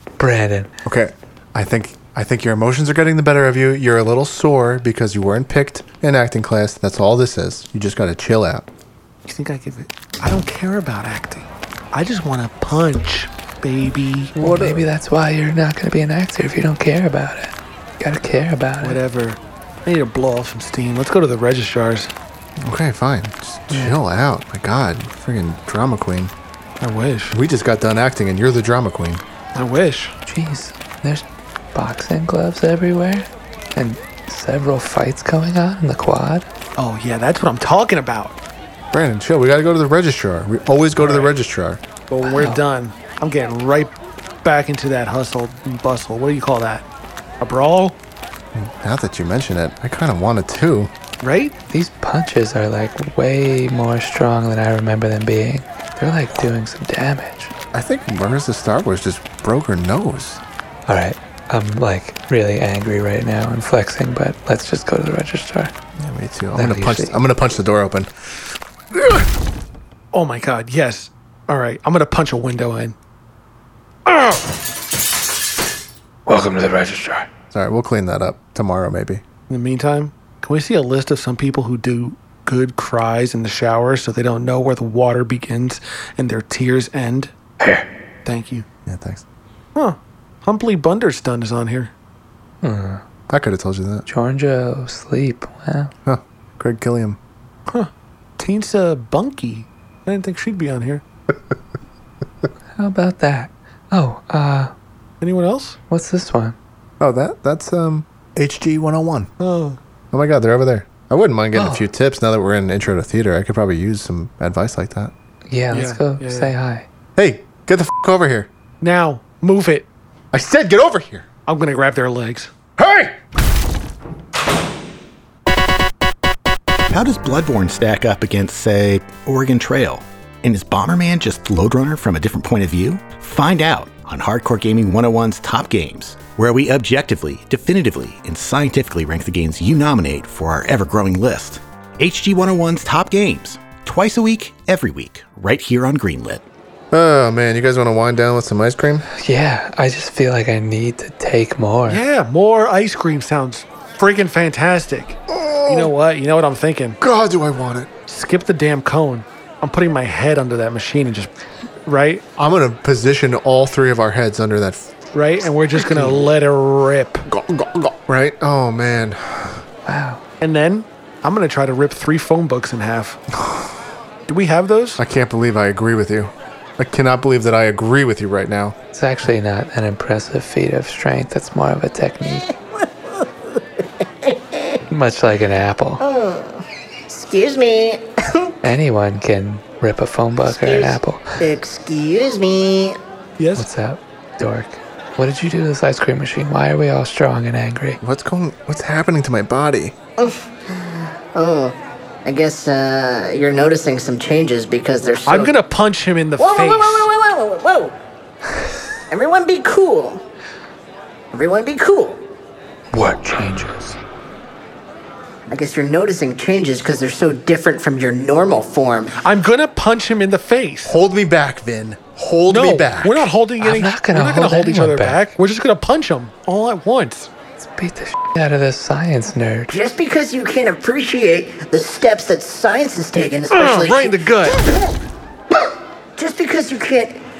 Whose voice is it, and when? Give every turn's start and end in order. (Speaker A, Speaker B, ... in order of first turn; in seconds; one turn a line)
Speaker A: 0.2-0.7
Speaker B: 0.8-8.7
Speaker C: 9.2-14.4
Speaker A: 14.4-19.0
Speaker B: 14.4-14.8
Speaker C: 18.8-22.1
Speaker B: 22.6-26.3
Speaker A: 23.7-24.0
Speaker C: 26.8-27.4
Speaker B: 27.3-29.2
Speaker C: 29.5-30.1
Speaker A: 30.2-36.5
Speaker C: 36.8-38.4
Speaker B: 38.9-41.8
Speaker C: 41.0-41.3
Speaker C: 42.1-46.9
Speaker A: 42.2-42.6
Speaker C: 47.4-48.0
Speaker B: 48.5-50.9
Speaker C: 51.2-51.5
Speaker A: 51.7-57.5
Speaker B: 57.7-60.4
Speaker A: 60.9-65.7
Speaker B: 66.0-68.1
Speaker A: 66.5-67.2
Speaker C: 70.1-73.0
Speaker C: 74.0-74.4
Speaker A: 76.3-77.3
Speaker B: 77.5-79.2
Speaker C: 79.5-87.3
Speaker A: 87.6-87.9
Speaker C: 88.2-88.7
Speaker B: 88.8-89.2
Speaker C: 89.7-91.9
Speaker A: 92.6-93.0
Speaker B: 93.3-94.0
Speaker A: 94.1-95.9
Speaker B: 96.0-97.2
Speaker C: 97.7-101.0
Speaker A: 102.8-104.7
Speaker C: 105.2-105.8
Speaker A: 105.9-106.6
Speaker B: 107.0-109.3
Speaker C: 109.4-109.8
Speaker B: 110.1-115.1
Speaker A: 111.5-111.9
Speaker A: 115.5-116.9
Speaker C: 115.7-116.5
Speaker B: 117.2-118.5
Speaker C: 118.8-119.9
Speaker B: 120.3-121.3
Speaker C: 121.5-122.5
Speaker B: 122.8-123.2
Speaker D: 126.9-146.4
Speaker B: 146.9-149.1
Speaker A: 149.2-152.0
Speaker C: 151.9-157.0
Speaker B: 155.3-155.9
Speaker B: 157.0-157.9
Speaker C: 158.1-161.3
Speaker C: 161.8-162.2
Speaker B: 162.4-164.9
Speaker C: 165.1-167.3
Speaker B: 165.7-166.2
Speaker B: 167.3-169.6
Speaker A: 169.8-170.2
Speaker C: 170.4-173.2
Speaker B: 173.3-173.7
Speaker C: 174.3-175.0
Speaker B: 175.0-178.8
Speaker A: 178.9-182.5
Speaker E: 182.8-183.6
Speaker E: 184.2-184.7
Speaker A: 184.9-186.0
Speaker E: 186.0-188.5
Speaker A: 188.6-191.4
Speaker E: 190.5-193.0
Speaker C: 193.4-193.7
Speaker A: 193.6-198.0
Speaker B: 198.0-199.9
Speaker E: 200.2-205.5
Speaker C: 205.2-207.1
Speaker E: 206.4-207.9
Speaker E: 209.1-210.2
Speaker E: 211.3-212.2
Speaker A: 212.9-214.0
Speaker E: 215.5-219.2
Speaker C: 219.2-221.0
Speaker B: 220.8-223.3
Speaker C: 222.5-227.3
Speaker A: 223.6-225.3
Speaker A: 227.6-229.8
Speaker E: 229.7-234.9
Speaker C: 233.5-234.6
Speaker E: 236.2-237.2